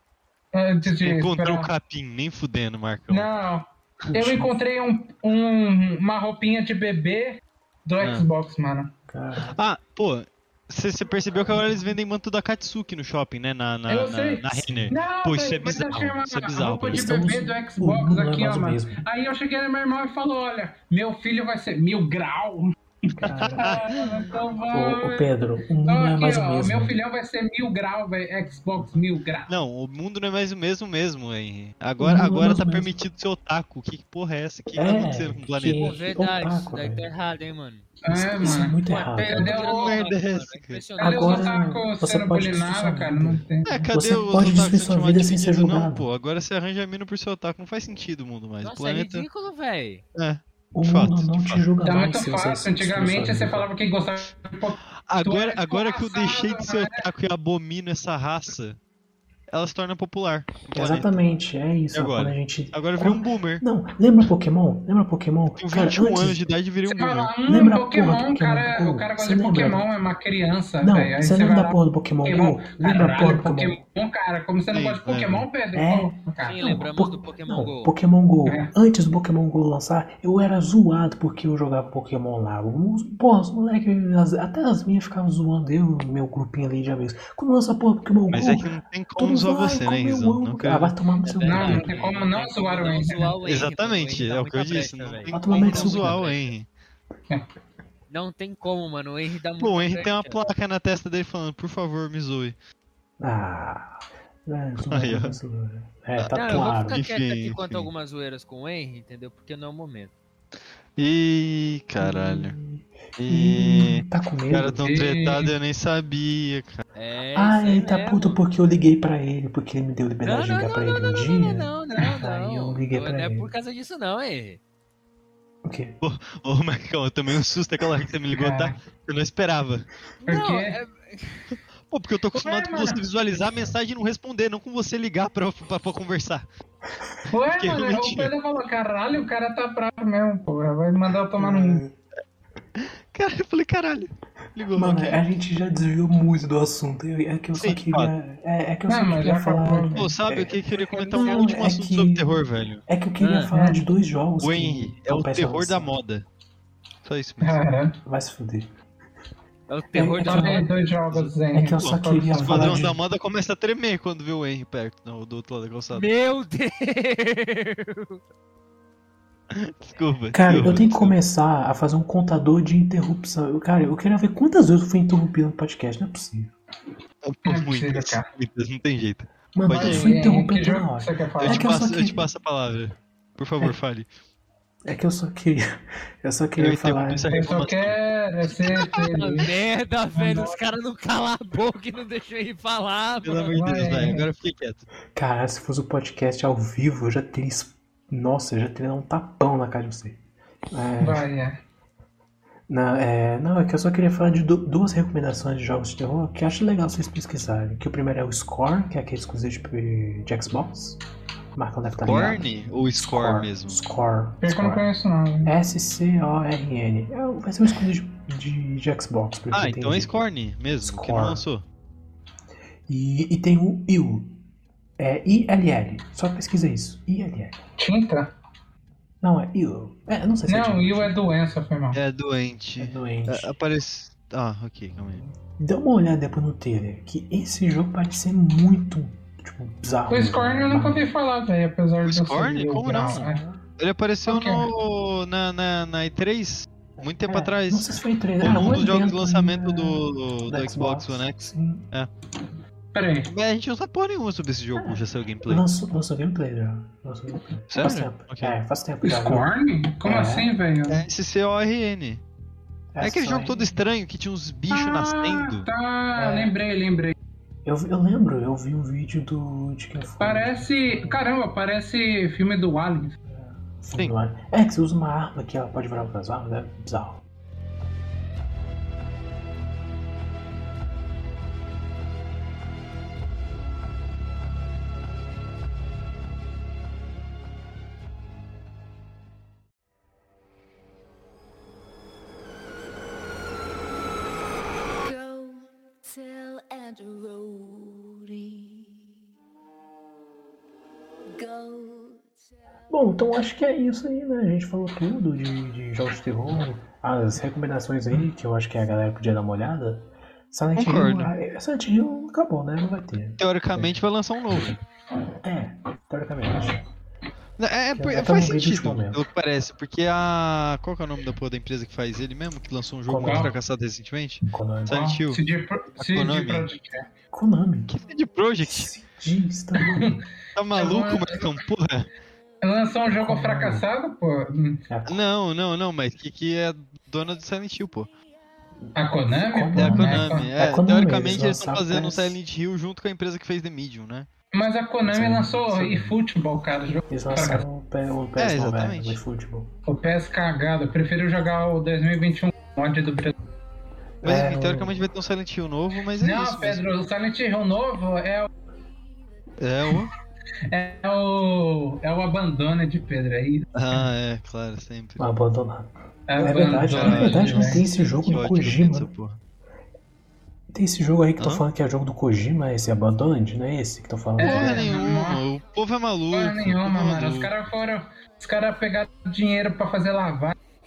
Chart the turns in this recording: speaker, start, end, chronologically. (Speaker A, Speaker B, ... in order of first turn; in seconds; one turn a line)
Speaker A: 0.5-1.7
Speaker B: 0.8-3.3
Speaker A: 3.1-8.9
Speaker C: 4.0-4.5
Speaker B: 8.0-8.3
Speaker C: 9.1-9.5
Speaker B: 9.5-17.1
Speaker A: 13.9-25.2
Speaker C: 14.6-14.9
Speaker C: 16.9-19.0
Speaker C: 23.2-24.1
Speaker B: 23.4-23.8
Speaker C: 24.7-26.9
Speaker A: 25.9-29.5
Speaker B: 29.5-36.0
Speaker C: 32.0-33.0
Speaker C: 34.7-37.1
Speaker D: 35.8-41.6
Speaker A: 38.0-40.0
Speaker C: 38.1-39.5
Speaker B: 39.4-40.8
Speaker C: 41.0-46.1
Speaker A: 41.0-43.9
Speaker B: 43.6-49.3
Speaker D: 48.6-50.0
Speaker B: 50.1-51.7
Speaker C: 50.7-53.7
Speaker A: 51.8-57.0
Speaker B: 55.1-58.8
Speaker B: 59.5-61.2
Speaker C: 60.7-66.4
Speaker B: 61.9-63.6
Speaker B: 65.6-67.3
Speaker A: 66.9-76.6
Speaker C: 67.5-69.8
Speaker C: 70.8-73.8
Speaker B: 74.7-75.5
Speaker C: 75.7-92.1
Speaker D: 76.4-77.9
Speaker B: 88.3-90.9
Speaker D: 91.2-96.5
Speaker A: 91.4-93.4
Speaker B: 93.4-96.7
Speaker C: 95.3-96.3
Speaker D: 98.1-100.4
Speaker B: 99.6-102.5
Speaker C: 103.2-107.0
Speaker B: 104.9-105.3
Speaker B: 106.2-107.9
Speaker D: 106.3-110.1
Speaker B: 111.0-112.5
Speaker C: 112.0-114.9
Speaker B: 113.2-116.8
Speaker A: 114.8-115.5
Speaker D: 116.9-118.4
Speaker C: 117.3-123.5
Speaker D: 120.2-124.6
Speaker C: 125.6-126.0
Speaker B: 126.0-129.9
Speaker A: 128.3-128.8
Speaker D: 130.2-131.6
Speaker A: 130.2-130.8
Speaker B: 131.9-136.4
Speaker A: 132.3-133.0
Speaker A: 137.3-141.8
Speaker B: 137.5-138.3
Speaker C: 141.4-141.9
Speaker B: 142.8-145.2
Speaker C: 144.7-155.9
Speaker B: 147.5-148.1
Speaker A: 148.9-150.0
Speaker B: 149.9-152.8
Speaker D: 153.2-153.5
Speaker A: 153.5-153.8
Speaker B: 154.4-156.2
Speaker B: 157.0-157.6
Speaker A: 157.4-158.0
Speaker C: 158.0-158.7
Speaker D: 159.7-160.7
Speaker C: 159.9-160.7
Speaker A: 160.2-162.8
Speaker C: 161.5-163.0
Speaker B: 161.8-166.1
Speaker D: 165.9-168.2
Speaker B: 169.5-171.2
Speaker C: 170.3-176.5
Speaker B: 177.2-180.2
Speaker A: 177.4-178.2
Speaker C: 179.5-182.3
Speaker A: 179.7-181.7
Speaker B: 181.4-184.1
Speaker C: 184.8-187.5
Speaker B: 186.6-188.0
Speaker A: 187.3-189.5
Speaker B: 188.6-188.9
Speaker D: 188.7-193.6
Speaker A: 190.1-190.6
Speaker B: 193.2-194.9
Speaker A: 193.5-194.2
Speaker C: 195.1-201.2
Speaker A: 201.0-201.6
Speaker C: 202.7-211.0
Speaker C: 211.5-214.9
Speaker B: 212.0-213.8
Speaker A: 214.4-215.5
Speaker C: 215.4-220.1
Speaker B: 219.5-221.6
Speaker C: 220.8-221.4
Speaker C: 222.9-224.4
Speaker C: 225.0-227.6
Speaker A: 227.8-228.3
Speaker C: 229.2-231.2
Speaker A: 230.5-232.0
Speaker B: 231.9-235.2
Speaker C: 232.8-233.5
Speaker C: 235.2-241.1
Speaker A: 240.1-243.4
Speaker B: 242.1-252.1
Speaker C: 242.9-243.6
Speaker A: 244.2-244.7
Speaker C: 247.0-251.9
Speaker A: 252.9-253.3
Speaker B: 253.2-255.7
Speaker C: 254.7-259.5
Speaker B: 257.7-258.6
Speaker A: 259.0-261.0
Speaker C: 260.0-260.5
Speaker B: 260.9-262.2
Speaker C: 262.9-263.7
Speaker B: 263.0-265.7
Speaker A: 264.7-267.1
Speaker C: 266.1-266.5
Speaker C: 267.6-271.2
Speaker A: 270.2-273.1
Speaker C: 273.2-277.2
Speaker E: 295.0-298.9
Speaker E: 301.3-302.4
Speaker C: 302.9-314.0
Speaker B: 310.8-311.3
Speaker B: 313.4-314.8
Speaker C: 315.4-316.8
Speaker B: 317.6-325.4
Speaker C: 317.9-319.3
Speaker C: 323.1-323.6
Speaker A: 323.2-323.5
Speaker C: 324.5-325.0
Speaker A: 324.9-327.1
Speaker B: 325.9-326.7
Speaker C: 327.3-327.9
Speaker B: 327.9-328.9
Speaker C: 328.6-330.2
Speaker B: 330.5-332.1
Speaker A: 330.7-331.5
Speaker A: 332.6-334.8
Speaker C: 333.1-333.9
Speaker C: 334.9-335.2
Speaker B: 335.1-338.1
Speaker C: 338.8-342.4
Speaker A: 338.9-340.5
Speaker B: 339.8-344.3
Speaker A: 344.5-347.6
Speaker C: 345.1-346.1
Speaker C: 346.9-349.7
Speaker B: 348.4-349.2
Speaker A: 349.9-353.3
Speaker C: 354.2-355.1
Speaker B: 354.2-356.8
Speaker A: 356.2-358.5
Speaker B: 359.6-360.1
Speaker A: 360.7-364.1
Speaker B: 363.7-365.2
Speaker C: 365.2-369.1
Speaker A: 366.3-367.8
Speaker B: 366.9-369.4
Speaker C: 370.7-374.9
Speaker B: 371.4-371.6
Speaker A: 374.4-375.4
Speaker B: 374.4-377.5
Speaker A: 376.3-380.6